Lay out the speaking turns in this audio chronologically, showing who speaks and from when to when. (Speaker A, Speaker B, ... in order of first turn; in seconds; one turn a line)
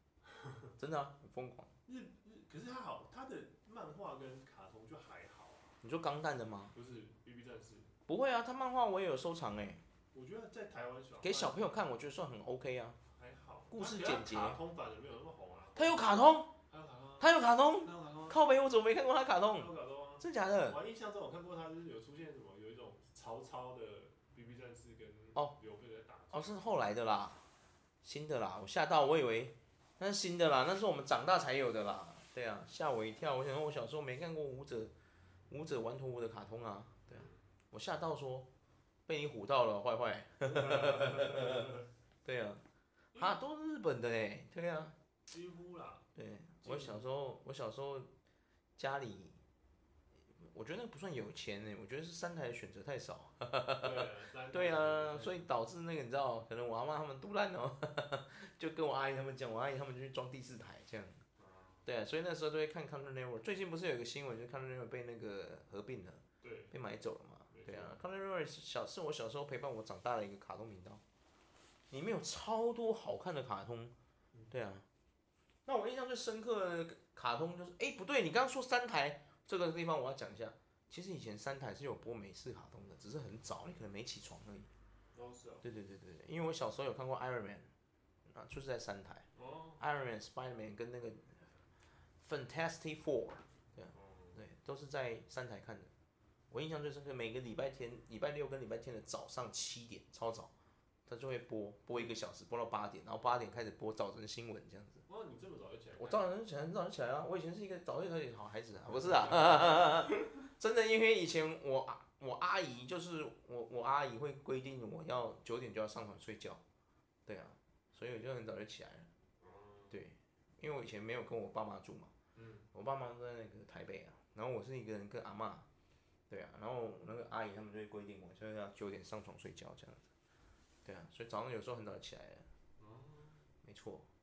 Speaker A: 0.3-0.6
Speaker B: 0.8-1.7
Speaker A: 1.9-5.8
Speaker B: 5.8-6.7
Speaker A: 6.7-7.9
Speaker B: 8.1-9.8
Speaker A: 10.1-11.8
Speaker B: 11.2-13.0
Speaker A: 13.1-18.4
Speaker B: 13.7-14.6
Speaker B: 15.7-16.6
Speaker B: 17.2-20.8
Speaker A: 19.5-26.6
Speaker B: 26.3-27.4
Speaker B: 28.0-34.9
Speaker B: 35.5-38.5
Speaker A: 37.1-37.4
Speaker B: 39.1-41.7
Speaker A: 40.4-41.9
Speaker B: 42.2-42.6
Speaker A: 43.1-43.4
Speaker B: 43.2-45.0
Speaker A: 45.3-46.1
Speaker B: 46.1-48.1
Speaker A: 46.6-47.0
Speaker B: 48.8-49.4
Speaker B: 50.4-61.2
Speaker A: 53.8-55.4
Speaker A: 61.4-61.9
Speaker B: 61.9-71.0
Speaker A: 66.4-66.8
Speaker A: 67.5-68.0
Speaker B: 71.9-73.9
Speaker B: 74.5-74.8
Speaker B: 75.7-84.7
Speaker A: 85.1-85.7
Speaker B: 85.6-87.7
Speaker B: 88.3-89.2
Speaker A: 89.3-89.8
Speaker B: 89.8-91.5
Speaker B: 92.2-95.9
Speaker A: 93.9-94.4
Speaker B: 96.5-100.5
Speaker B: 101.1-105.0
Speaker A: 103.2-103.6
Speaker A: 105.1-106.3
Speaker B: 106.0-116.6
Speaker A: 108.9-110.2
Speaker B: 117.2-119.1
Speaker A: 119.4-120.0
Speaker B: 119.9-122.1
Speaker A: 122.3-122.7
Speaker B: 122.7-125.7
Speaker B: 126.3-130.1
Speaker B: 130.8-132.4
Speaker A: 132.8-133.4
Speaker B: 133.6-134.1